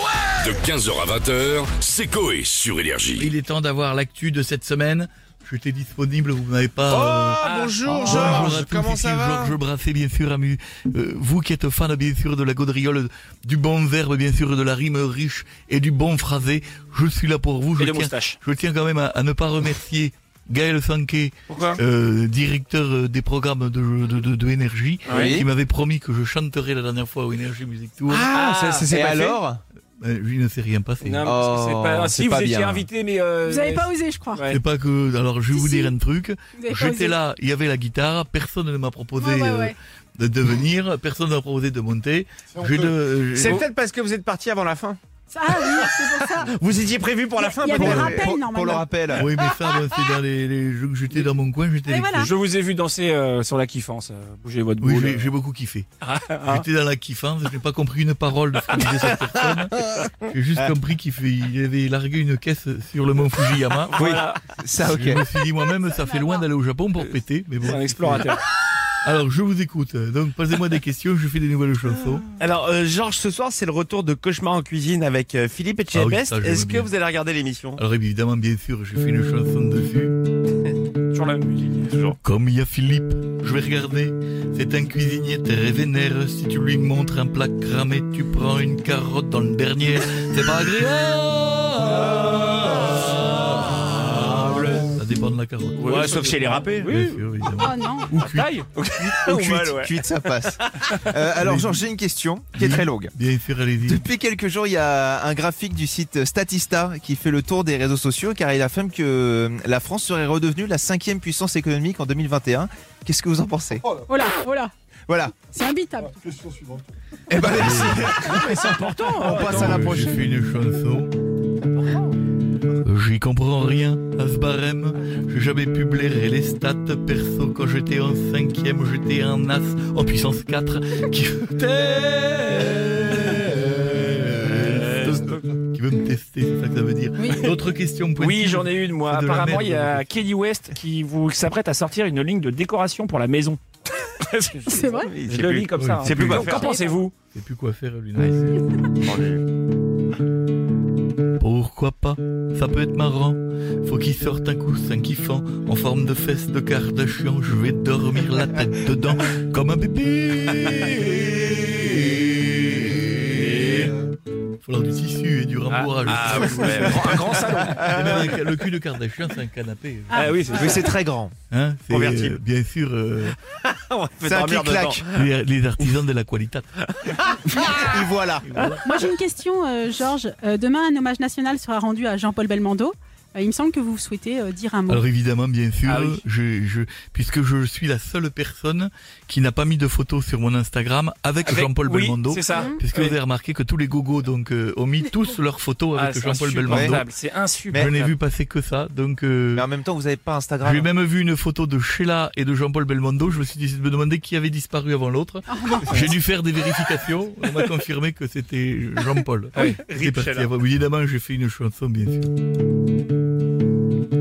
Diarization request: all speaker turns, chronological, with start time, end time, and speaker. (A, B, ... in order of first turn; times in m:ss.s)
0:00.4-0:03.3 A
0:03.2-0:07.5 B
0:06.9-0:09.6 C
0:07.4-0:08.5 D
0:08.0-0:28.3 B
0:17.8-0:18.4 D
0:21.5-0:21.8 D
0:25.0-0:25.4 D
0:25.1-0:25.5 C
0:28.1-0:29.6 C
0:28.3-0:29.4 D
0:29.1-0:29.4 E
0:30.0-0:31.3 B
0:31.0-0:34.6 D
0:31.2-0:32.9 C
0:33.4-0:34.4 F
0:34.5-0:43.6 B
0:35.5-0:35.9 F
0:36.6-0:37.2 F
0:39.2-0:39.8 F
0:42.7-0:45.0 E
0:45.3-0:46.5 F
0:45.7-0:48.3 E
0:47.4-0:48.9 F
0:47.6-0:49.3 C
0:47.7-0:48.3 B
0:49.1-0:52.3 B
0:51.9-0:52.3 F
0:52.2-0:55.3 D
0:54.8-0:55.9 B
0:56.0-0:56.6 D
0:56.5-1:04.1 B
1:03.9-1:04.4 D
1:04.0-1:05.2 C
1:04.8-1:08.3 B
1:06.1-1:06.4 F
1:07.6-1:08.4 D
1:09.0-1:12.2 B
1:12.4-1:17.8 E
1:12.7-1:13.9 C
1:15.2-1:16.0 C
1:15.9-1:16.9 B
1:16.8-1:17.2 C
1:17.8-1:20.2 B
1:21.1-1:22.1 D
1:22.2-1:38.5 B
1:35.8-1:37.2 D
1:35.8-1:37.0 E
1:37.6-1:38.1 F
1:38.2-1:40.0 D
1:39.0-1:43.1 C
1:41.3-1:41.8 B
1:42.5-1:44.0 B
1:43.8-1:53.9 C
1:54.1-1:54.7 F
1:55.1-1:55.3 C
1:55.4-1:56.2 F
1:57.3-2:00.2 C
1:57.4-1:58.3 B
1:58.1-1:59.6 F
1:58.3-2:00.0 D
1:59.5-2:01.1 B
2:02.8-2:20.0 B
2:14.6-2:15.4 D
2:17.2-2:17.5 F
2:18.2-2:27.1 D
2:24.7-2:25.1 F
2:25.0-2:26.8 E
2:25.2-2:26.5 C
2:25.7-2:26.6 B
2:26.4-2:26.8 F
2:27.3-2:28.6 B
2:29.0-2:29.4 C
2:31.4-2:43.9 B
2:43.3-2:43.9 D
2:44.6-2:50.6 B
2:45.7-2:48.3 D
2:46.0-2:46.8 E
2:46.6-2:48.2 C
2:50.1-2:50.9 F
2:50.1-2:50.8 D
2:50.5-2:51.3 C
2:51.5-2:53.4 B
2:51.9-2:52.3 E
2:53.6-2:55.1 E
2:54.2-2:55.1 C
2:55.1-2:56.7 B
2:57.6-2:58.5 C
2:58.4-2:58.9 B
2:58.8-3:05.0 F
3:04.9-3:17.1 B
3:05.8-3:06.2 D
3:11.4-3:13.2 D
3:12.5-3:12.8 F
3:15.9-3:18.2 D
3:16.7-3:17.0 C
3:17.7-3:19.7 B
3:19.5-3:20.9 C
3:20.6-3:32.3 B
3:25.5-3:26.0 F
3:25.9-3:26.1 D
3:29.5-3:30.5 D